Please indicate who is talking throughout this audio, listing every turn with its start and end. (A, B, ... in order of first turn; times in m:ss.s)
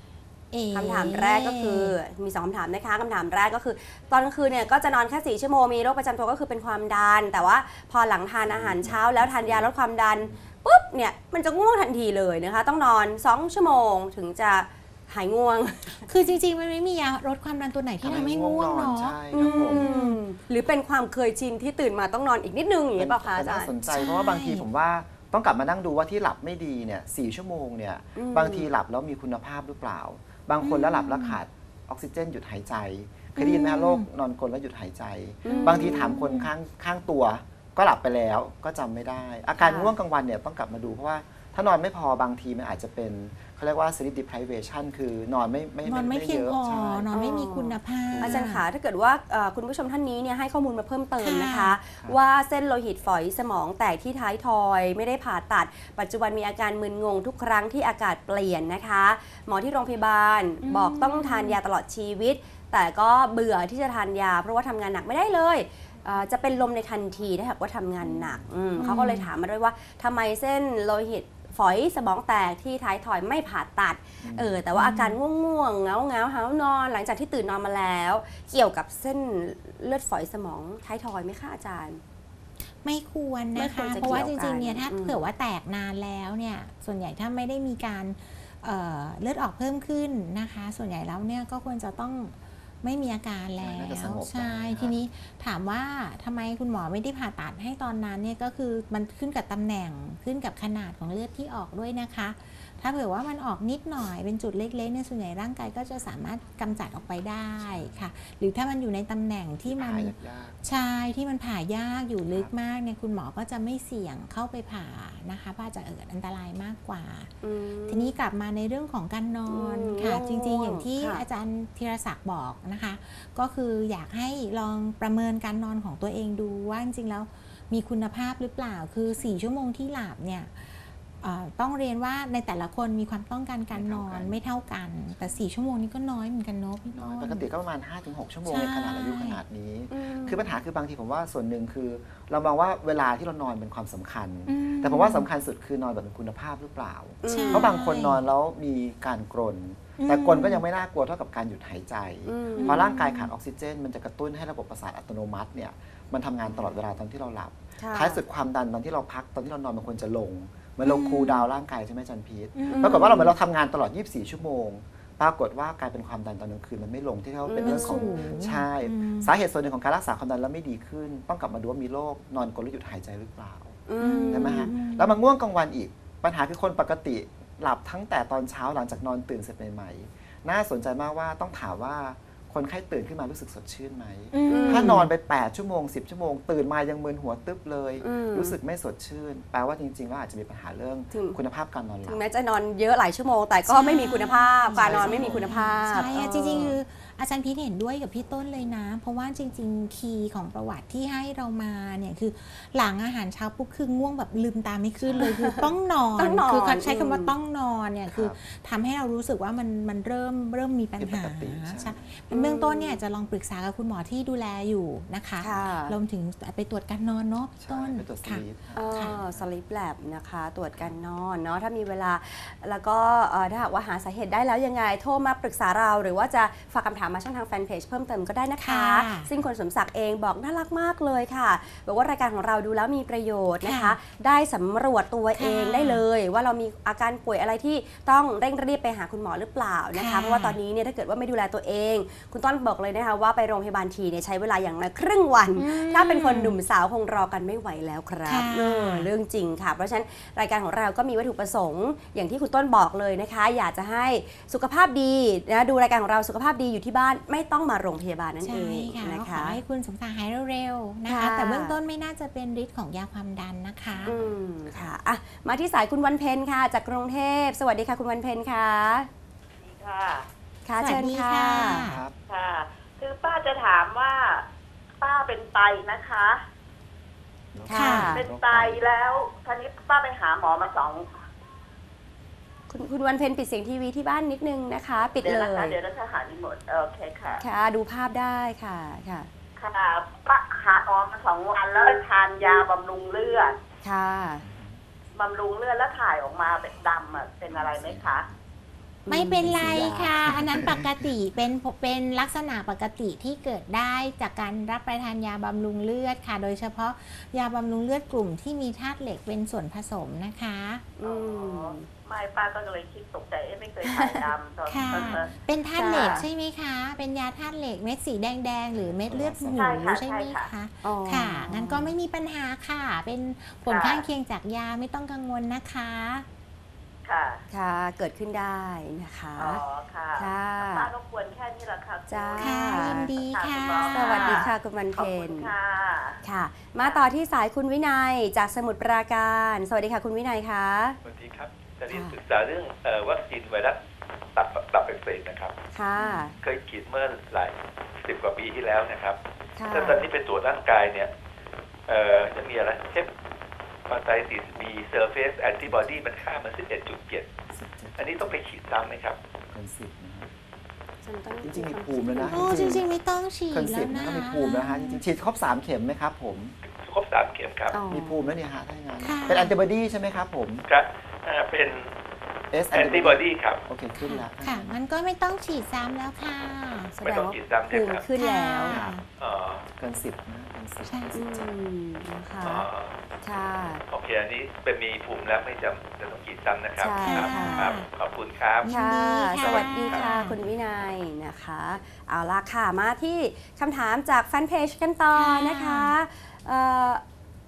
0:00.5-0:02.0 A
0:00.7-0:16.1 B
0:08.4-0:10.5 C
0:16.1-0:20.2 A
0:18.0-0:19.9 C
0:19.3-0:23.7 B
0:23.0-0:47.1 C
0:23.9-0:24.6 A
0:28.2-0:28.7 B
0:30.6-0:31.4 A
0:33.4-0:34.1 A
0:35.4-0:36.2 B
0:35.5-0:36.5 A
0:39.6-0:39.9 B
0:45.8-0:48.6 A
0:47.1-1:22.0 B
0:48.1-0:48.6 C
0:51.2-0:51.8 A
1:00.6-1:01.6 A
1:08.8-1:09.3 A
1:14.2-1:14.6 C
1:14.8-1:15.2 A
1:22.8-1:57.3 A
1:23.6-1:25.2 B
1:33.6-1:35.0 C
1:47.6-1:48.1 C
1:49.7-1:50.6 C
1:52.2-1:52.5 C
1:57.4-1:58.1 B
1:57.9-2:17.5 A
1:59.5-2:01.2 B
2:09.1-2:09.4 C
2:13.7-2:14.4 C
2:15.1-2:15.4 C
2:16.9-3:12.2 C
2:18.5-2:19.4 A
2:19.9-2:20.4 B
2:24.5-2:25.3 A
2:27.2-2:27.7 B
2:27.3-2:28.2 A
2:30.0-2:30.6 A
2:32.3-2:32.8 B
2:32.6-2:33.3 A
2:37.8-2:38.2 B
2:40.8-2:41.5 A
2:42.6-2:43.3 A
2:42.7-2:43.3 B
2:47.4-2:48.4 B
2:47.6-2:49.3 A
2:53.9-2:54.7 B
2:54.0-2:55.2 A
3:04.3-3:05.1 A
3:04.5-3:05.1 B
3:08.0-3:08.6 B
3:11.1-3:11.4 B
3:12.0-3:16.8 B
3:13.7-3:39.2 A
3:14.7-3:16.8 C
3:25.0-3:25.6 C
3:25.2-3:27.4 B
3:28.1-3:28.4 C
3:31.0-3:32.2 C
3:32.3-3:33.0 B
3:35.4-3:36.0 B
3:37.6-3:39.5 C
3:38.8-4:19.6 B
3:48.6-3:49.3 A
3:53.6-3:54.0 A
3:55.3-3:56.0 A
3:59.9-4:00.6 A
4:05.6-4:06.6 A
4:08.3-4:09.1 A
4:18.4-4:24.1 A
4:21.1-4:21.8 B
4:23.9-4:24.9 C
4:24.1-4:29.1 B
4:29.6-4:30.3 D
4:30.6-4:31.8 B
4:30.8-4:32.0 A
4:31.6-4:32.2 C
4:32.3-4:34.5 D
4:35.0-4:36.4 D
4:37.5-4:38.8 C
4:37.7-4:38.3 B
4:37.7-4:38.2 A
4:38.1-4:41.1 D
4:42.7-4:45.8 B
4:45.2-4:47.4 D
4:47.4-4:49.3 B
4:49.6-4:53.6 D
4:53.8-4:54.5 B
4:54.4-4:54.8 C
4:55.2-4:58.3 D
4:57.5-4:58.4 C
4:59.0-4:59.5 B
4:59.1-5:10.9 A
4:59.4-5:01.1 C
5:11.0-5:11.9 B
5:11.0-5:15.3 D
5:13.8-5:14.3 B
5:14.7-5:26.3 A
5:14.7-5:16.2 C
5:15.7-5:16.3 B
5:18.7-5:19.9 C
5:19.6-5:20.5 D
5:20.8-5:21.9 B
5:23.7-5:24.1 D
5:27.0-5:27.4 D
5:27.5-5:29.6 B
5:29.4-5:36.2 D
5:30.2-5:30.9 B
5:32.1-5:33.2 B
5:32.4-5:34.5 A
5:33.9-5:35.5 B
5:36.2-5:41.0 B
5:41.0-5:43.8 E
5:41.9-5:42.2 B
5:44.4-5:45.6 E
5:45.7-5:46.4 B
5:46.0-5:46.3 A
5:46.3-5:49.2 E
5:49.6-5:50.0 B
5:49.7-5:51.1 E
5:51.9-5:53.1 E
5:53.9-5:57.3 E
5:57.5-5:58.4 C
5:58.0-5:59.2 E
5:59.5-6:00.3 C
6:01.0-6:02.6 B
6:01.4-6:02.9 C
6:02.3-6:05.0 A
6:03.5-6:06.6 C
6:06.6-6:07.8 E
6:07.7-6:08.4 B
6:07.9-6:10.7 C
6:09.0-6:09.6 A
6:10.7-6:11.9 E
6:12.5-6:14.8 C
6:12.7-6:13.6 E
6:14.0-6:16.9 A
6:17.0-6:18.8 B
6:17.0-6:18.1 E
6:18.1-6:19.0 A
6:18.7-6:19.0 C
6:19.1-6:19.7 E
6:19.8-6:21.6 C
6:20.8-6:21.3 A
6:21.2-6:22.7 B
6:22.4-6:23.0 E
6:23.2-6:23.8 B
6:23.9-6:28.7 E
6:26.8-6:27.7 B
6:27.0-6:27.9 A
6:28.6-6:30.4 A
6:28.7-6:37.0 B
6:29.4-6:30.1 E
6:35.1-6:35.9 A